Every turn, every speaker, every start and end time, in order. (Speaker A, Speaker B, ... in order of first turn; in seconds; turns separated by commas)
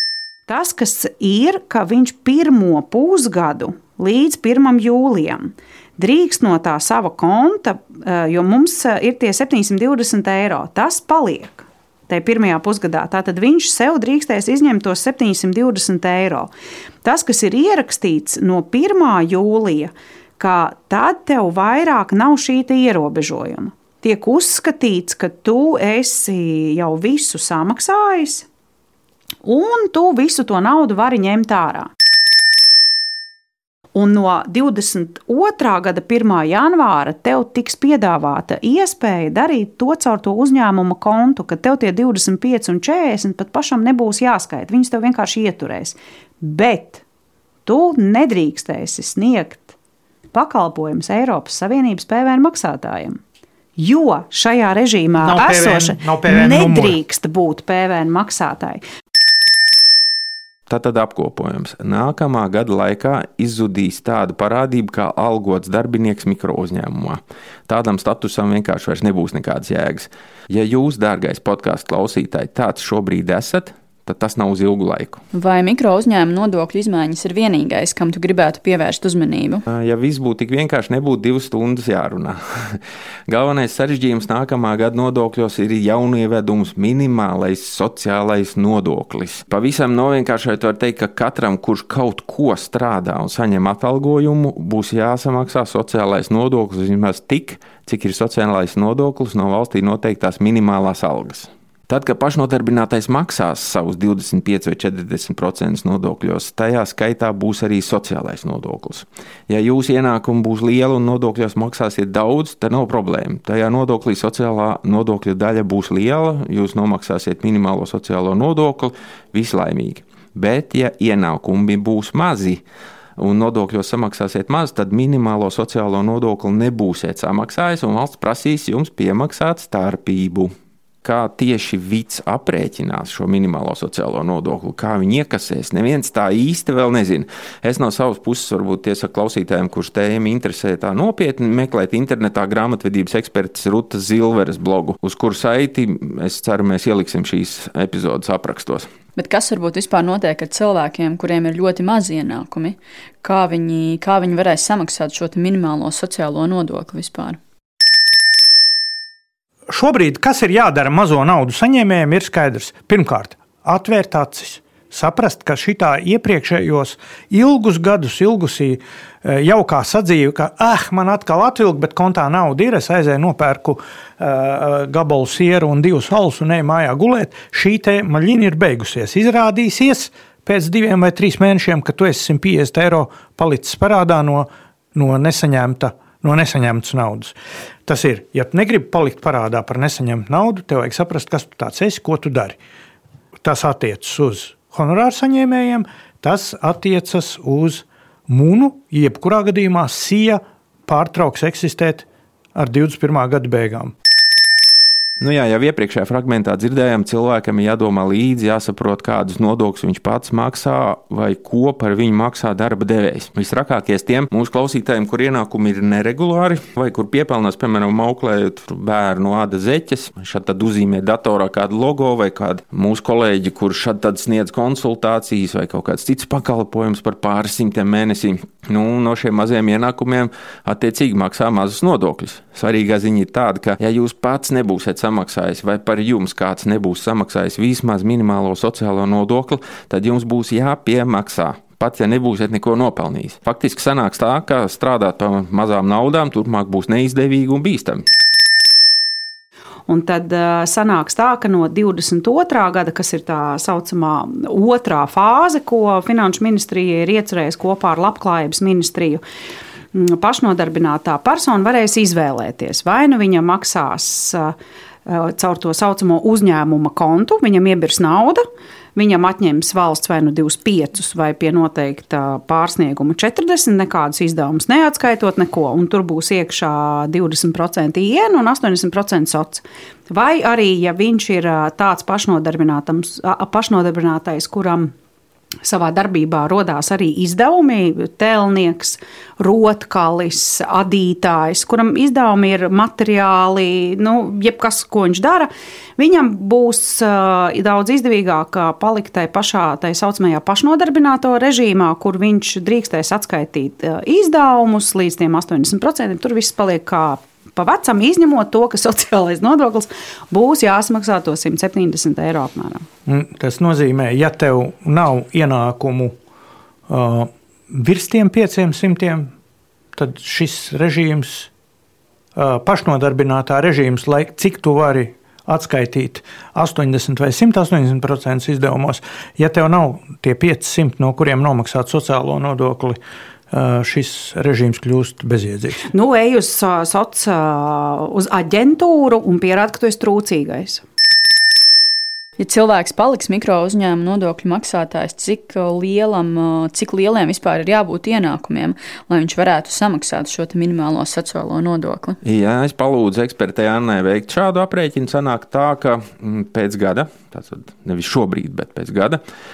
Speaker A: 0.5-16.5, Speaker A: 17.0-28.4, Speaker A: 29.4-31.9, Speaker A: 33.9-47.0, Speaker A: 47.6-49.7, Speaker A: 50.3-53.2, Speaker A: 53.8-58.8, Speaker B: 55.2-57.0, Speaker C: 60.7-75.2, Speaker D: 75.3-79.6, Speaker C: 79.7-122.6, Speaker C: 123.2-130.5, Speaker C: 131.0-148.9, Speaker D: 149.2-157.4, Speaker B: 159.7-187.3, Speaker B: 187.8-192.6, Speaker B: 193.4-203.9, Speaker C: 205.2-248.0, Speaker A: 249.9-259.2, Speaker A: 259.9-264.5, Speaker A: 265.1-284.9, Speaker A: 285.6-312.9, Speaker B: 313.1-316.1, Speaker B: 316.9-319.3, Speaker B: 319.9-321.5, Speaker B: 322.3-333.0, Speaker B: 333.5-335.9, Speaker A: 335.9-340.8, Speaker D: 342.4-352.2, Speaker C: 352.2-359.2